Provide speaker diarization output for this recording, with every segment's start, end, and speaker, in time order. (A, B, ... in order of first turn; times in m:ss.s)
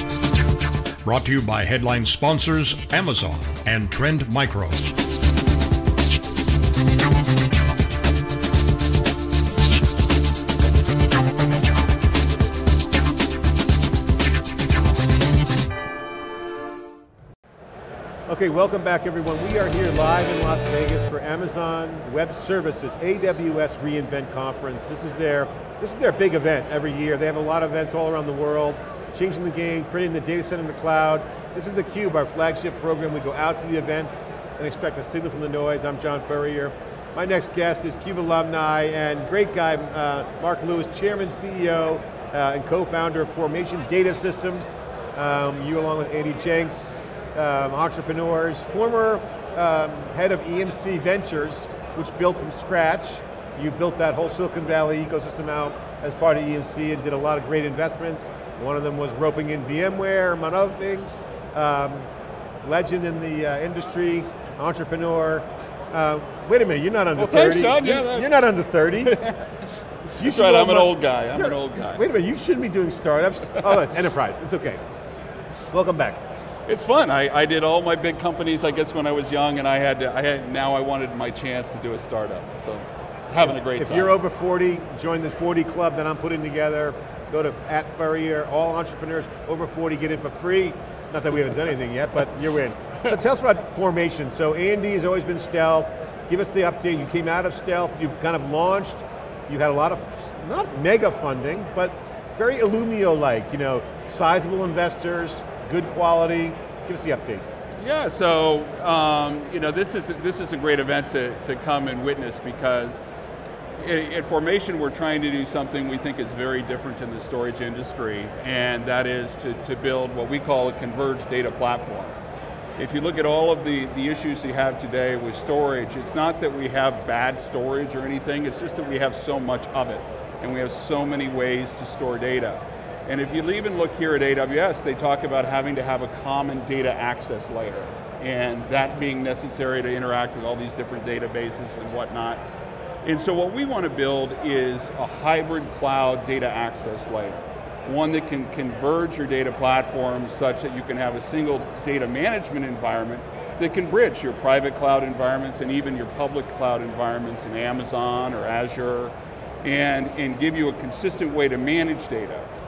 0:01.0-0:04.8 A
0:18.3-1:02.1 B
1:02.6-1:09.2 B
1:07.2-1:08.4 C
1:09.0-1:09.6 C
1:10.2-1:12.0 C
1:10.2-1:14.8 B
1:15.7-1:16.2 B
1:16.7-1:24.2 C
1:23.4-1:47.4 B
1:47.8-1:53.0 C
1:53.8-2:02.2 C
2:02.8-2:22.4 C
2:23.0-2:42.5 C